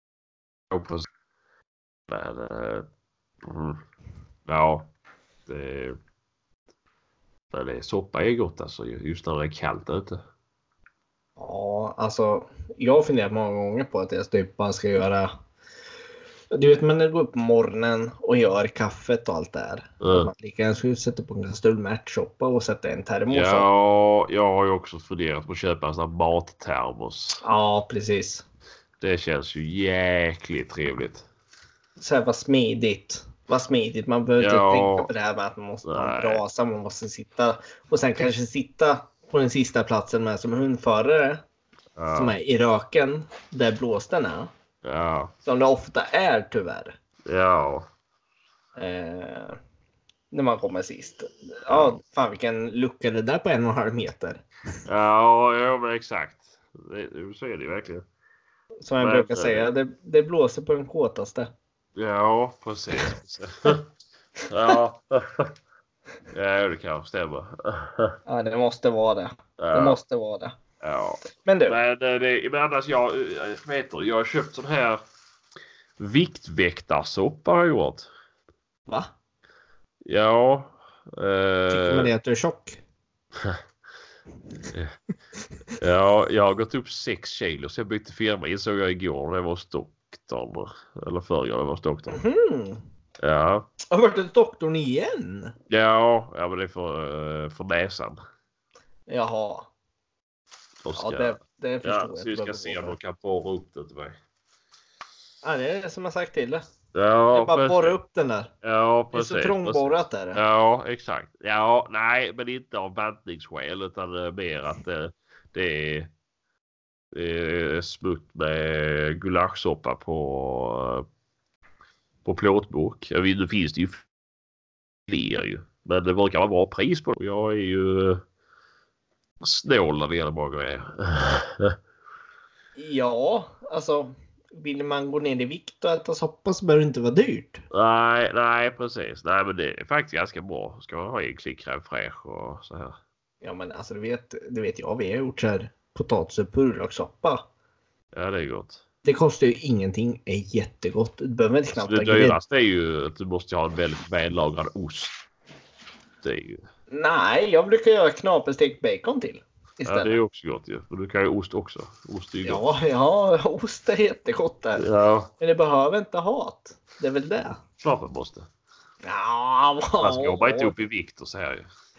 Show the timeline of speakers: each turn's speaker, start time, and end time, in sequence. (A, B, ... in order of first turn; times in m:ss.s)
0:00.7-0:01.1 A
0:02.1-0:02.9 A
0:03.4-0:03.8 A
0:04.5-0:04.9 A
0:05.5-0:06.0 A
0:07.5-0:10.2 A
0:11.4-0:15.3 B
0:16.5-0:23.7 B
0:20.0-0:20.3 A
0:23.3-0:27.4 A
0:27.4-0:28.4 B
0:29.0-0:31.2 A
0:32.0-0:41.4 B
0:34.4-0:35.1 A
0:35.8-0:36.4 A
0:42.0-0:42.3 A
0:42.1-0:44.5 B
0:44.8-0:45.3 A
0:45.4-0:47.0 B
0:47.3-0:47.9 A
0:48.8-0:49.6 B
0:50.3-0:54.4 B
0:51.7-0:52.0 A
0:54.9-0:58.0 A
0:58.8-1:01.5 B
0:59.0-0:59.7 A
1:02.0-1:03.9 A
1:04.5-1:05.5 A
1:06.3-1:08.2 A
1:08.3-1:10.6 B
1:09.6-1:10.0 A
1:10.8-1:15.0 A
1:11.4-1:11.8 B
1:16.0-1:18.1 A
1:20.0-1:22.1 A
1:21.7-1:22.8 B
1:25.8-1:32.2 A
1:32.1-1:32.8 B
1:33.2-1:33.7 A
1:33.9-1:35.6 B
1:35.7-1:38.2 A
1:39.1-1:39.7 B
1:40.8-1:44.2 A
1:41.0-1:43.0 B
1:45.4-1:46.6 B
1:46.9-1:47.9 A
1:47.3-1:48.5 B
1:48.6-1:56.1 A
1:49.1-1:50.4 B
1:57.1-2:01.1 A
2:02.2-2:04.0 A
2:05.1-2:08.2 A
2:09.4-2:11.8 A
2:12.8-2:17.6 B
2:17.7-2:23.0 A
2:23.4-2:27.4 B
2:28.2-2:28.8 A
2:29.0-2:32.4 B
2:31.7-2:35.2 A
2:36.2-2:36.6 A
2:36.9-2:40.2 B
2:39.9-2:42.6 A
2:42.4-2:44.9 B
2:44.8-2:45.3 A
2:45.4-2:47.6 B
2:47.8-2:48.5 A
2:49.0-2:50.7 B
2:50.0-2:51.7 A